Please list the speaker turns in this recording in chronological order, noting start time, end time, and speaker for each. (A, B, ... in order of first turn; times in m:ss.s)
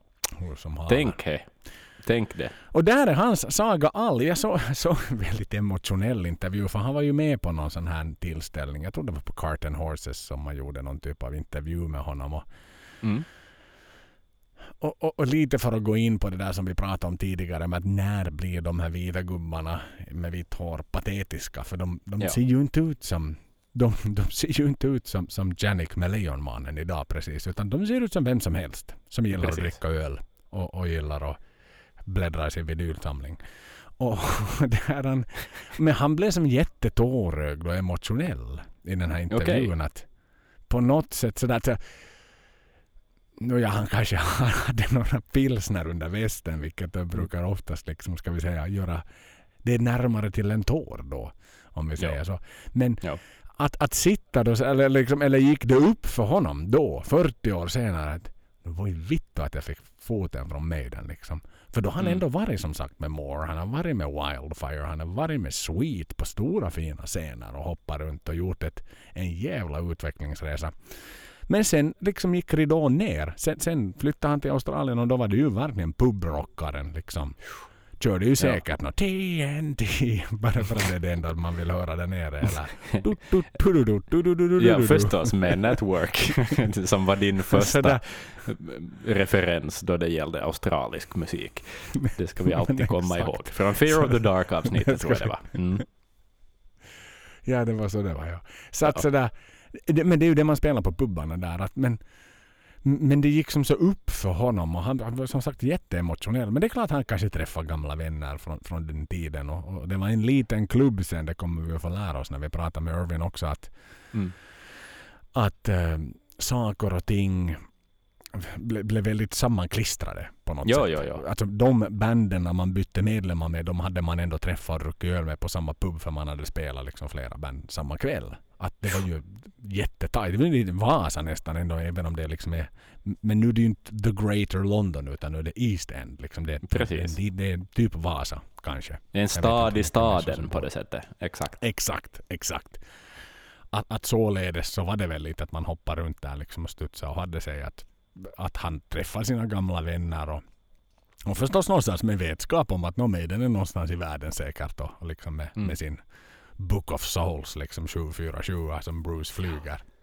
0:00.4-0:01.2 A
0:00.9-0:02.6 B
0:02.7-0:12.5 A
0:13.0-0:13.3 B
0:14.8-0:31.4 A
0:29.3-0:29.8 B
0:32.0-0:33.4 A
0:34.0-0:40.1 A
0:39.3-0:39.7 B
0:40.7-0:42.0 A
0:43.4-0:49.0 A
0:49.6-0:53.0 A
0:53.5-1:26.5 A
1:24.6-1:35.9 B
1:27.5-1:28.0 A
1:32.4-1:35.3 A
1:37.4-1:42.0 A
1:42.8-1:53.8 A
1:55.3-1:57.6 A
1:58.3-2:20.7 A
2:00.6-2:01.2 B
2:16.6-2:17.1 B
2:19.1-2:21.6 B
2:21.6-2:22.8 A
2:23.7-2:30.4 A
2:31.2-2:36.0 A
2:36.6-2:39.8 A